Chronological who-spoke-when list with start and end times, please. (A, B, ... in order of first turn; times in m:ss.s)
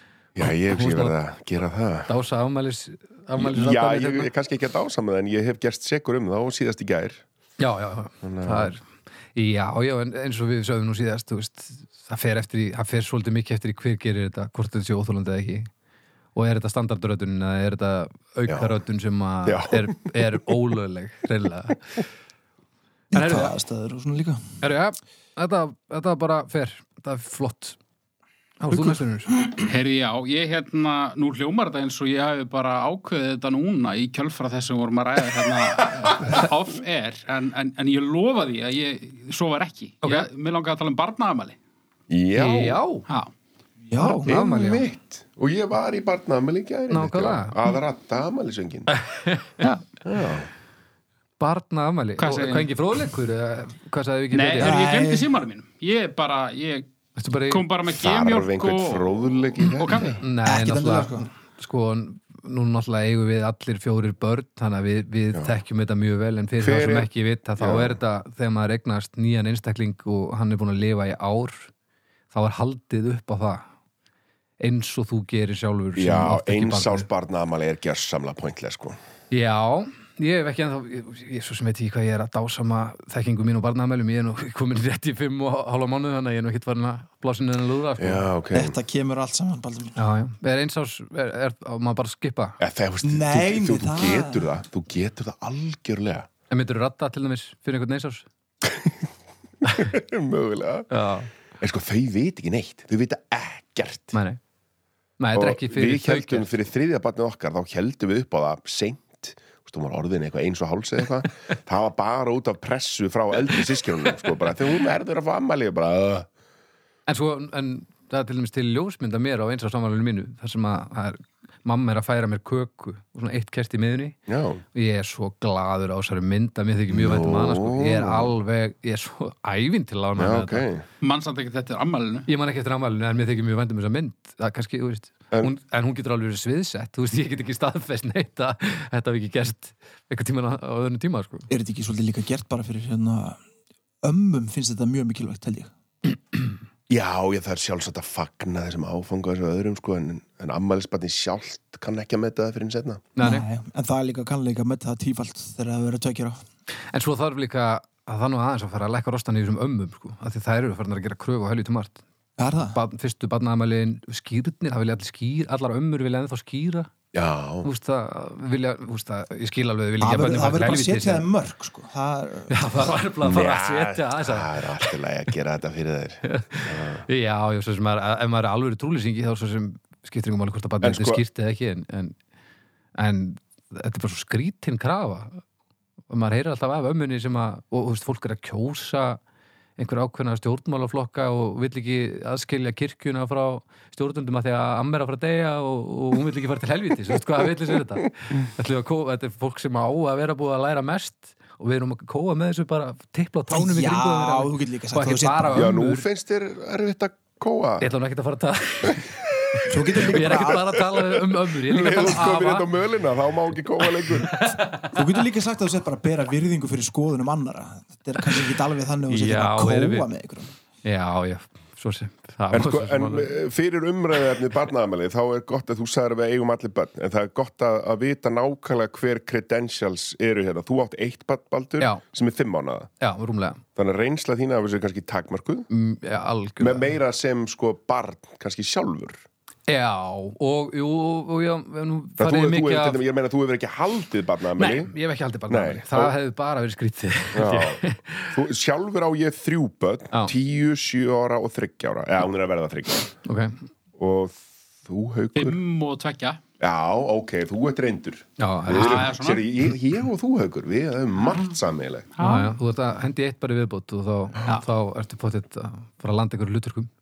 0:00.4-0:02.1 A
0:00.4-0:01.2 B
0:02.1-0:04.3 B
0:03.4-0:07.2 A
0:07.6-0:08.8 B
0:08.2-0:08.7 A
0:09.3-0:15.7 B
0:16.3-0:22.0 B
0:18.5-0:18.7 A
0:19.4-0:20.5 A
0:23.1-0:24.4 C
0:23.1-0:23.5 B
0:24.6-0:27.8 B
0:28.6-0:29.3 B
0:28.7-0:29.6 C
0:29.6-0:41.6 D
0:42.1-0:42.8 A
0:42.3-0:43.0 B
0:43.9-0:44.3 C
0:44.0-0:44.8 B
0:44.2-0:48.9 A
0:46.9-0:47.6 B
0:48.9-0:49.8 B
0:50.0-0:50.5 A
0:51.4-0:54.8 B
0:52.2-0:52.7 D
0:54.3-0:56.9 D
0:54.6-0:55.3 C
0:57.2-0:57.6 B
0:57.5-1:00.2 D
0:57.9-1:00.2 A
1:00.2-1:11.7 B
1:00.4-1:01.3 C
1:06.6-1:08.0 A
1:12.3-1:13.6 B
1:14.6-1:17.1 B
1:16.0-1:19.0 A
1:19.3-1:28.3 B
1:28.0-1:28.8 A
1:28.5-1:30.0 C
1:30.0-1:32.6 B
1:32.6-1:36.3 A
1:33.0-1:34.5 C
1:36.5-1:38.2 B
1:38.6-1:39.1 A
1:39.7-1:40.9 A
1:40.9-1:41.3 B
1:41.6-1:44.2 A
1:44.1-1:44.4 B
1:45.2-1:46.5 B
1:45.3-1:56.3 A
1:57.1-2:04.2 B
2:04.3-2:04.6 A
2:04.7-2:10.6 B
2:06.9-2:08.3 A
2:10.2-2:10.8 A
2:11.0-2:12.3 D
2:12.3-2:21.5 B
2:21.5-2:23.4 C
2:24.0-2:25.7 C
2:26.9-2:33.1 A
2:33.2-2:33.4 B
2:33.2-2:36.4 C
2:36.9-2:42.0 B
2:42.4-2:42.8 C
2:42.7-2:46.9 B
2:47.1-2:47.7 A
2:47.6-2:51.2 B
2:50.0-2:52.9 C
2:52.5-2:54.9 B
2:53.2-2:57.0 A
2:56.2-3:02.2 B
3:00.8-3:01.2 A
3:02.9-3:05.4 B
3:06.1-3:09.2 B
3:09.8-3:26.0 B
3:23.5-3:25.7 C
3:25.5-3:27.9 A
3:27.8-3:32.7 B
3:28.9-3:34.4 A
3:29.7-3:30.7 C
3:33.8-3:35.0 B
3:34.9-3:40.5 C
3:39.1-3:40.1 B
3:40.8-3:43.4 B
3:42.5-3:52.9 A
3:53.0-3:53.6 B
3:53.8-3:55.7 A
3:55.7-3:56.9 B
3:56.6-3:59.2 A
3:59.7-4:03.0 B
4:02.2-4:04.9 A
4:04.6-4:08.4 B
4:05.5-4:06.1 A
4:07.3-4:13.1 A
4:13.2-4:13.6 B
4:14.0-4:15.6 A
4:15.4-4:16.4 D
4:16.6-4:22.1 A
4:18.4-4:19.1 B
4:18.7-4:19.5 D
4:22.2-4:22.5 D
4:22.2-4:26.9 B